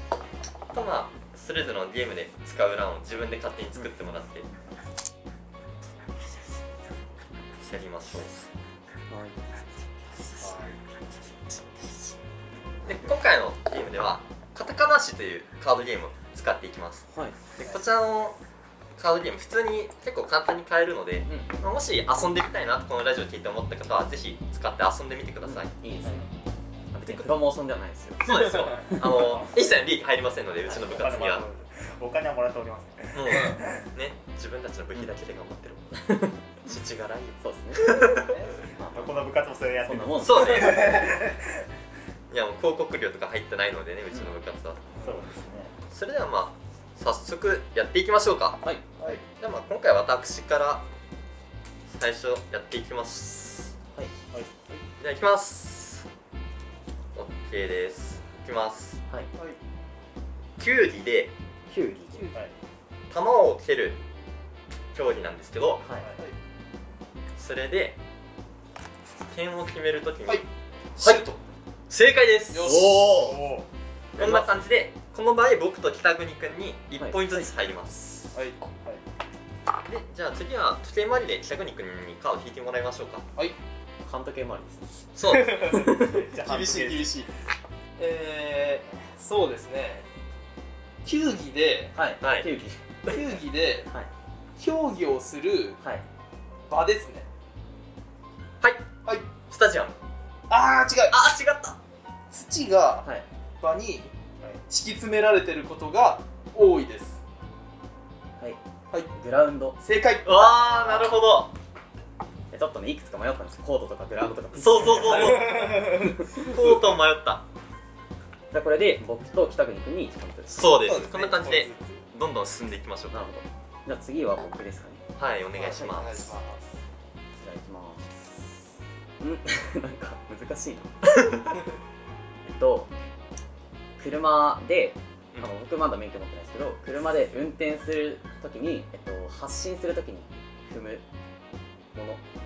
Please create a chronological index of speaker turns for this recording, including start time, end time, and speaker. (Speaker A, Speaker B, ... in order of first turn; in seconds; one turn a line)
Speaker A: 0.7-4.5
Speaker A: 7.6-8.5
Speaker B: 9.1-9.4
Speaker C: 10.4-10.8
Speaker A: 12.8-17.1
Speaker A: 17.6-18.4
Speaker A: 19.0-25.7
Speaker B: 21.2-21.5
Speaker B: 25.4-26.2
Speaker B: 26.9-28.3
Speaker A: 27.0-27.3
Speaker A: 28.2-31.4
Speaker C: 29.0-29.6
Speaker C: 30.7-33.8
Speaker A: 33.1-36.0
Speaker D: 33.3-33.6
Speaker B: 35.9-36.4
Speaker A: 36.6-38.3
Speaker B: 37.4-38.0
Speaker D: 38.1-38.6
Speaker C: 38.8-41.6
Speaker B: 39.9-40.9
Speaker A: 40.2-41.1
Speaker A: 42.3-44.8
Speaker C: 45.0-45.7
Speaker A: 45.9-48.6
Speaker A: 49.3-50.8
Speaker A: 51.9-53.7
Speaker C: 54.3-54.8
Speaker A: 55.0-56.0
Speaker A: 57.1-59.0
Speaker A: 60.6-61.3
Speaker B: 61.7-62.3
Speaker D: 62.1-62.4
Speaker A: 63.1-64.0
Speaker A: 64.9-65.8
Speaker A: 67.4-68.0
Speaker A: 69.3-70.4
Speaker D: 71.0-71.4
Speaker A: 71.0-71.2
Speaker A: 71.9-72.8
Speaker D: 72.5-73.2
Speaker B: 72.6-73.4
Speaker C: 73.2-73.7
Speaker A: 74.2-78.3
Speaker B: 77.0-77.5
Speaker A: 79.8-83.2
Speaker B: 84.0-84.9
Speaker A: 85.1-85.9
Speaker D: 85.3-87.3
Speaker B: 85.7-86.2
Speaker C: 86.0-87.2
Speaker D: 88.0-90.0
Speaker D: 91.0-91.9
Speaker B: 91.9-92.8
Speaker A: 92.2-92.5
Speaker D: 93.1-93.9
Speaker D: 94.6-95.8
Speaker D: 96.7-97.3
Speaker A: 98.6-98.9
Speaker A: 99.5-99.9
Speaker D: 100.5-101.2
Speaker A: 101.1-101.8
Speaker D: 102.3-103.0
Speaker D: 103.6-104.1
Speaker D: 104.7-107.2
Speaker B: 109.1-109.8
Speaker D: 109.8-110.8
Speaker A: 110.2-111.5
Speaker B: 112.5-116.4
Speaker A: 114.5-115.8
Speaker D: 115.0-116.8
Speaker A: 116.3-117.4
Speaker B: 118.5-120.7
Speaker A: 120.5-123.2
Speaker D: 120.8-122.0
Speaker B: 123.1-125.0
Speaker A: 125.2-126.3
Speaker D: 125.6-126.8
Speaker B: 127.4-128.1
Speaker B: 129.2-130.9
Speaker A: 131.0-131.4
Speaker B: 132.4-132.9
Speaker B: 134.0-141.0
Speaker B: 141.9-142.2